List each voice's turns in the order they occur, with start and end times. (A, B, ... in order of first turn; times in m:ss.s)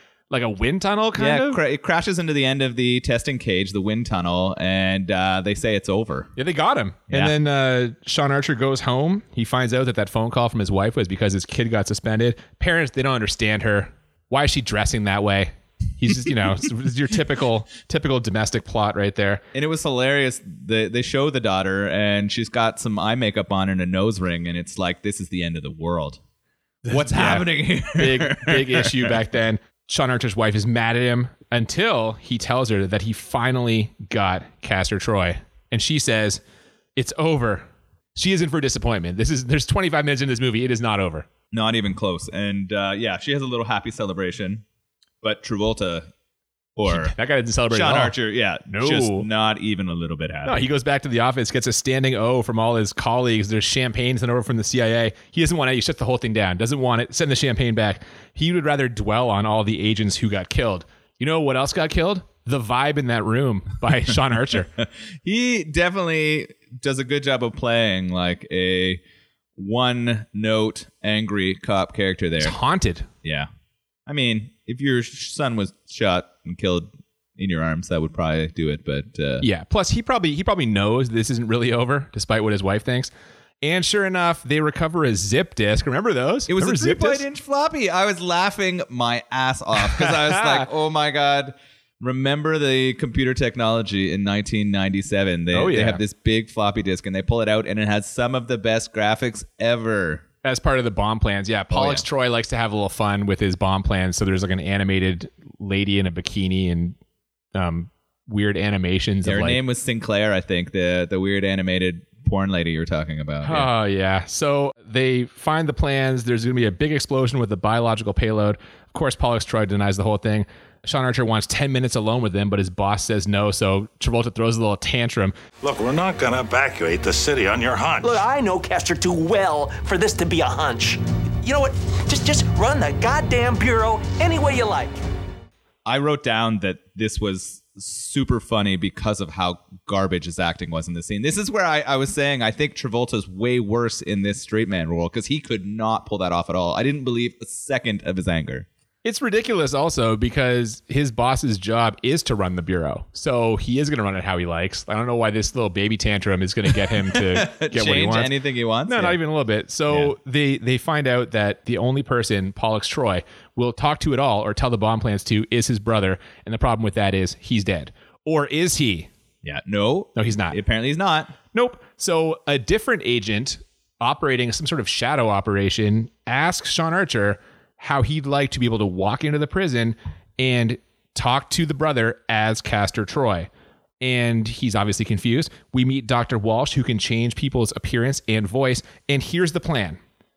0:00.3-0:01.6 A
0:01.2-0:06.3 B
0:06.4-0:19.4 A
0:19.5-0:26.2 B
0:26.9-0:36.4 A
0:26.9-0:29.2 B
0:37.0-0:41.3 A
0:41.5-0:44.6 B
0:45.2-0:46.1 B
0:46.8-0:47.1 B
0:46.9-0:48.2 A
0:47.7-0:50.6 B
0:48.7-0:49.3 A
0:50.4-1:04.7 A
1:04.8-1:09.0 B
1:09.6-1:12.6 B
1:12.4-1:13.1 A
1:13.2-1:13.5 B
1:14.1-1:19.4 B
1:19.4-1:27.2 A
1:26.5-1:40.2 B
1:29.8-1:30.7 A
1:35.5-1:36.0 A
1:40.4-1:47.0 A
1:41.7-1:42.0 B
1:47.6-1:49.6 A
1:49.2-1:53.7 B
1:53.4-2:05.4 A
2:05.6-2:08.2 C
2:08.0-2:15.0 D
2:15.9-2:28.7 B
2:29.0-2:38.3 A
2:37.0-2:39.2 B
2:38.9-2:49.1 A
2:49.4-2:51.4 B
2:50.2-2:50.6 A
2:51.5-3:03.5 A
3:04.0-3:10.0 A